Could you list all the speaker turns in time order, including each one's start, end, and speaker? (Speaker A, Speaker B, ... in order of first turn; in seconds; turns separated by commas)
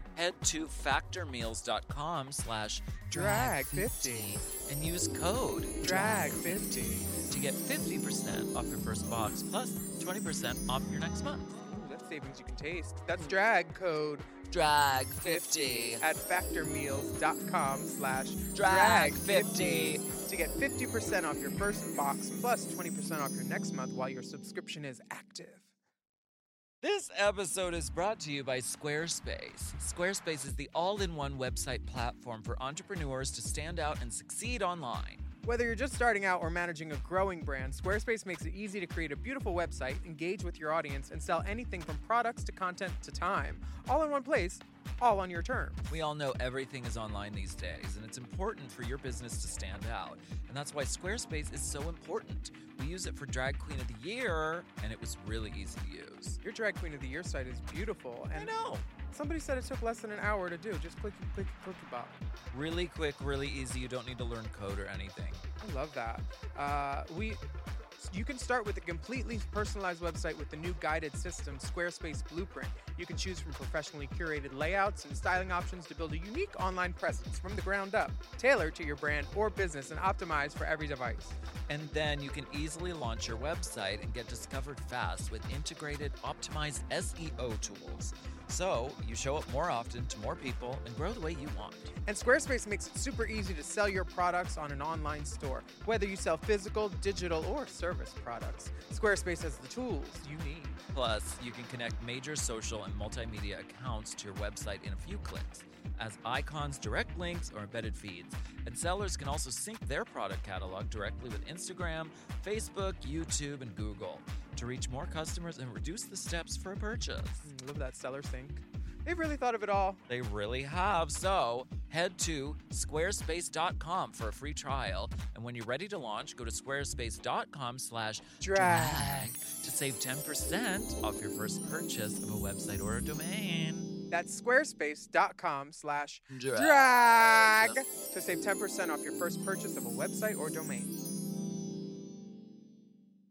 Speaker A: 0.1-11.5, Speaker B: 3.1-4.3, Speaker B: 5.8-7.2, Speaker B: 11.6-14.4, Speaker A: 14.5-16.0, Speaker B: 15.2-25.6, Speaker A: 18.5-20.1, Speaker A: 26.8-35.2, Speaker B: 35.4-45.8, Speaker A: 45.9-56.4, Speaker B: 56.4-62.2, Speaker A: 58.3-58.9, Speaker A: 62.5-65.4, Speaker B: 65.6-67.4, Speaker B: 68.0-81.4, Speaker A: 81.7-91.9, Speaker B: 92.0-100.8, Speaker A: 100.9-117.4, Speaker B: 117.4-120.0, Speaker A: 120.1-133.9, Speaker B: 128.4-129.2, Speaker B: 134.1-140.9, Speaker A: 136.3-137.8